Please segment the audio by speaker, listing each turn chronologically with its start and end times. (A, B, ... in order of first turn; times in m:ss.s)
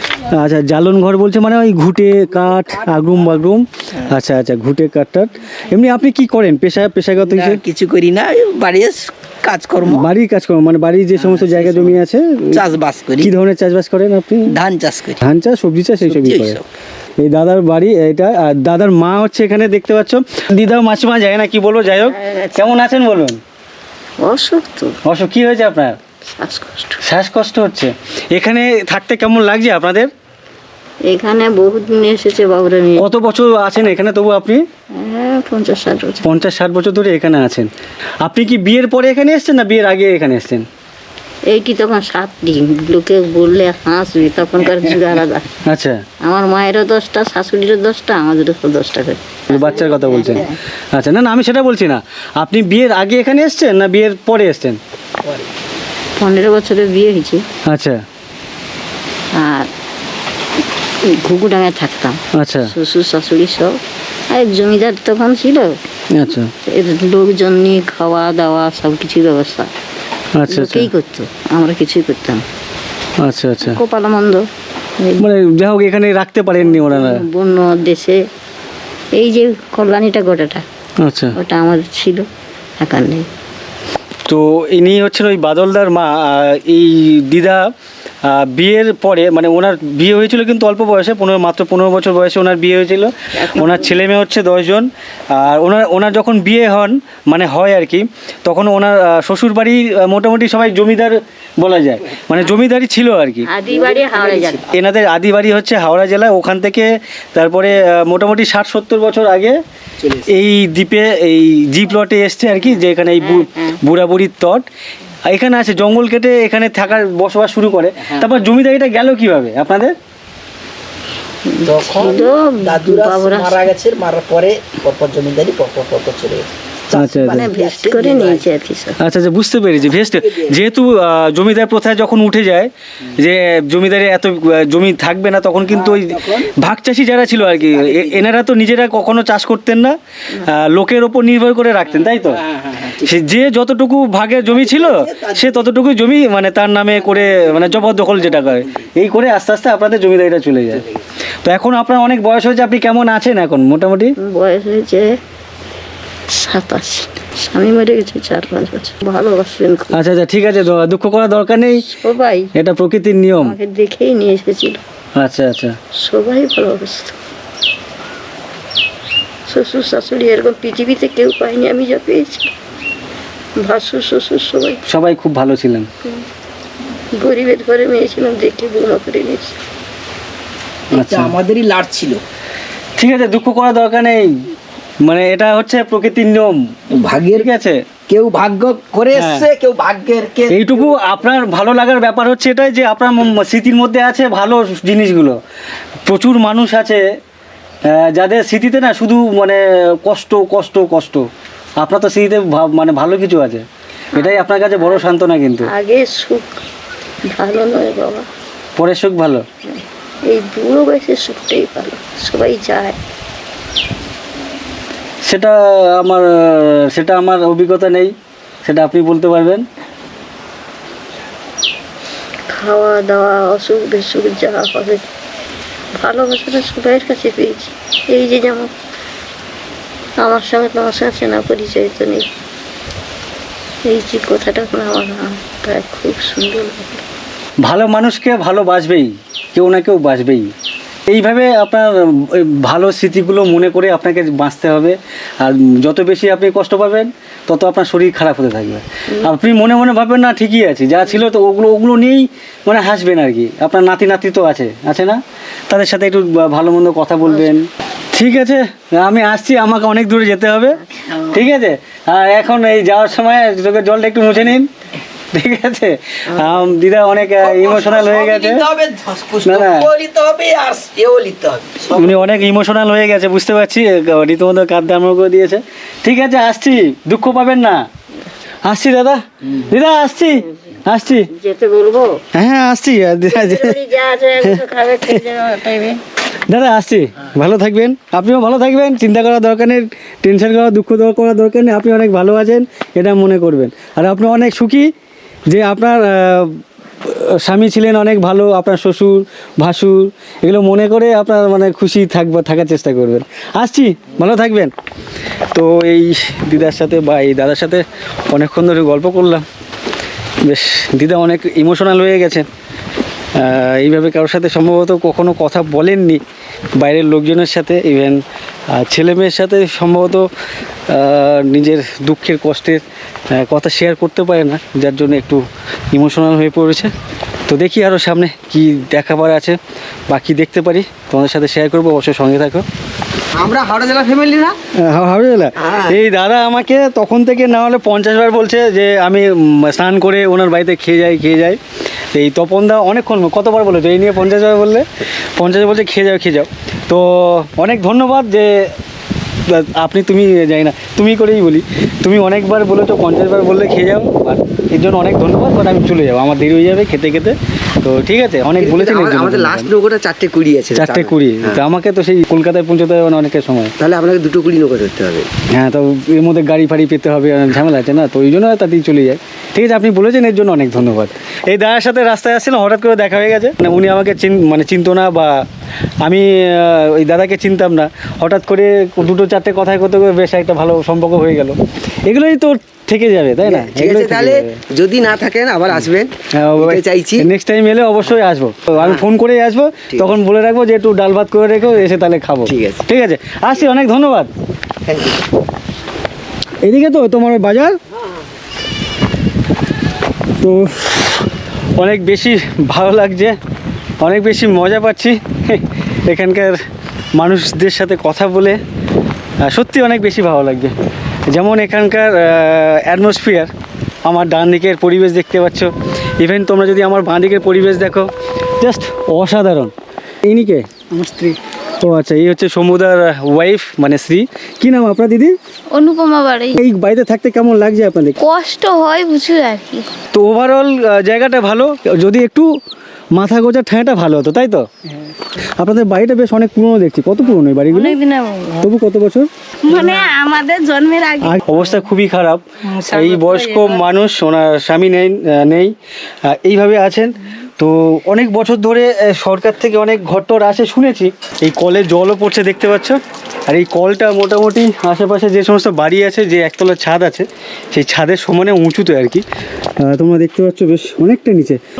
0:00.2-0:07.6 A
0:07.2-0:10.1 B
0:09.8-0:12.7 A
0:11.2-0:12.0 B
0:12.5-0:13.3 B
0:13.2-0:14.6 A
0:14.5-0:15.2 B
0:15.2-0:16.6 A
0:16.0-0:16.6 B
0:17.2-0:23.4 A
0:22.1-0:22.8 C
0:24.2-0:24.9 C
0:25.0-0:26.0 A
0:26.3-0:27.0 C
0:27.0-0:30.1 A
0:31.1-0:33.0 C
0:33.0-0:34.6 A
0:35.0-0:36.3 C
0:36.2-0:37.7 A
0:38.2-0:40.6 A
0:41.5-0:45.4 C
0:45.6-0:46.0 A
0:46.2-0:50.5 C
0:49.5-0:54.8 A
0:56.2-0:57.4 C
0:57.6-0:58.0 A
0:59.3-0:59.7 C
1:01.0-1:03.8 C
1:02.3-1:02.7 A
1:04.3-1:05.8 C
1:06.1-1:06.5 A
1:06.6-1:09.7 C
1:10.3-1:10.9 A
1:10.5-1:12.4 C
1:13.2-1:13.8 A
1:13.6-1:14.5 C
1:15.2-1:17.2 A
1:16.6-1:18.2 C
1:19.2-1:20.6 C
1:21.0-1:21.4 A
1:21.4-1:22.2 C
1:22.8-1:23.2 C
1:24.3-1:27.6 A
1:28.2-1:43.5 A
1:33.4-1:33.8 C
1:43.5-1:44.6 C
1:43.7-1:44.6 B
1:44.7-1:49.6 A
1:50.3-1:54.6 A
1:53.2-1:53.7 C
1:55.2-1:59.9 A
2:01.5-2:03.7 C
2:01.6-2:08.4 B
2:06.9-2:07.5 A
2:07.3-2:09.0 C
2:09.0-2:22.4 A
2:10.3-2:10.6 B
2:17.8-2:18.2 B
2:22.6-2:23.0 B
2:23.0-2:30.8 A
2:24.6-2:25.6 B
2:31.4-2:34.1 A
2:34.2-2:35.1 C
2:36.3-2:40.0 C
2:39.9-2:41.7 A
2:42.0-2:42.5 C
2:42.6-2:43.6 A
2:43.4-2:44.8 C
2:45.2-2:45.8 A
2:46.0-2:47.1 C
2:49.5-2:52.5 C
2:53.6-2:54.8 C
2:54.9-2:55.9 A
2:57.2-2:59.5 C
3:00.9-3:01.4 A
3:00.9-3:02.2 B
3:03.0-3:04.3 A
3:05.0-3:06.6 A
3:07.0-3:07.4 B
3:07.3-3:07.8 A
3:08.1-3:10.6 B
3:09.1-3:09.5 A
3:10.5-3:15.4 A
3:16.1-3:17.0 A
3:17.8-3:21.2 A
3:21.8-3:25.7 A
3:24.1-3:25.0 C
3:25.7-3:26.6 C
3:27.3-3:28.2 C
3:28.8-3:29.4 A
3:30.3-3:33.0 C
3:35.2-3:38.1 A
3:38.6-3:39.6 A
3:42.5-3:45.0 C
3:46.0-3:48.7 C
3:50.2-3:52.3 C
3:53.8-3:57.0 C
3:57.6-4:00.5 A
4:01.1-4:24.7 A
4:25.3-4:28.6 A
4:27.4-4:31.8 B
4:29.4-4:29.9 A
4:31.9-4:37.8 A
4:38.6-4:41.3 A
4:41.3-4:42.2 C
4:42.3-4:43.8 A
4:43.3-4:46.0 C
4:44.4-4:45.2 A
4:46.5-4:54.9 A
4:55.5-5:04.7 A
5:05.5-5:09.4 A
5:10.4-5:12.4 A
5:13.4-5:16.2 A
5:16.8-5:18.2 A
5:18.7-5:20.3 A
5:20.9-5:26.9 A
5:27.5-5:29.6 A
5:30.1-5:32.6 A
5:33.3-5:34.6 D
5:34.8-5:41.6 A
5:35.6-5:35.9 D
5:42.1-5:48.7 A
5:49.5-5:59.7 A
5:58.6-6:01.6 D
6:00.7-6:03.7 A
6:03.8-6:05.3 D
6:05.5-6:15.4 A
6:16.0-6:21.5 A
6:22.0-6:24.6 A
6:23.4-6:27.3 D
6:26.3-6:34.3 A
6:32.4-6:32.8 D
6:34.9-6:35.2 D
6:36.6-6:37.7 A
6:40.4-6:43.3 A
6:44.0-6:46.5 A
6:47.2-6:48.6 A
6:49.4-6:50.7 A
6:51.3-6:53.5 A
6:54.0-6:58.1 A
6:58.6-6:59.7 A
7:00.2-7:00.8 A
7:01.8-7:05.3 A
7:05.7-7:06.6 E
7:06.6-7:08.2 A
7:08.2-7:09.8 E
7:10.1-7:12.5 A
7:13.1-7:14.6 A
7:15.6-7:18.0 A
7:18.6-7:19.3 A
7:20.0-7:21.2 E
7:21.2-7:39.2 A
7:39.8-7:41.6 A